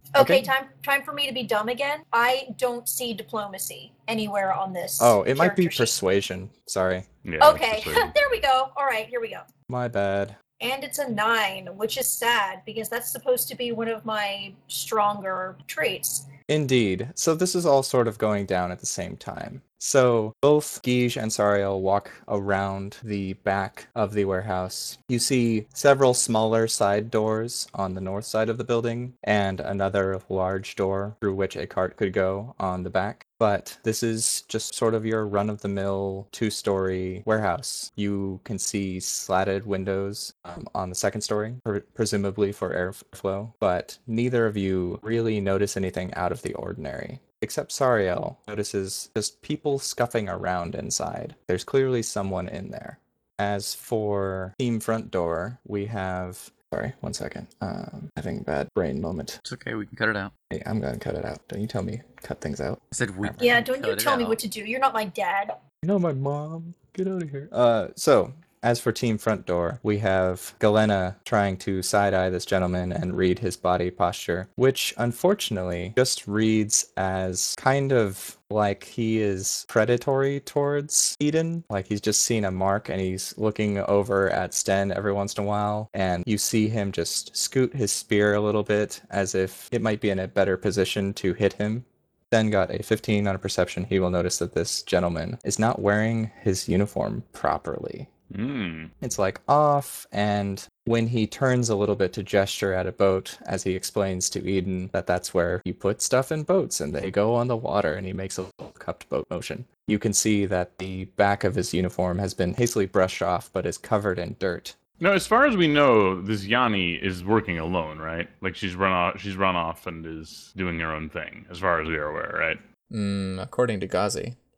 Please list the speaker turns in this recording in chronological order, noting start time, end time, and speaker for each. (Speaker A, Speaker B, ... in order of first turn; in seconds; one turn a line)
Speaker A: 0.1-6.0
Speaker B: 0.2-0.5
Speaker B: 5.0-7.1
Speaker C: 7.2-8.1
Speaker A: 7.4-9.4
Speaker B: 9.7-10.4
Speaker A: 10.6-16.3
Speaker B: 16.5-59.4
Speaker D: 59.4-60.3
Speaker B: 60.5-63.6
Speaker D: 62.9-64.4
Speaker A: 63.4-65.6
Speaker B: 65.8-98.1
Speaker C: 98.3-98.9
Speaker B: 99.0-114.8
Speaker C: 115.0-122.6
Speaker B: 122.9-124.4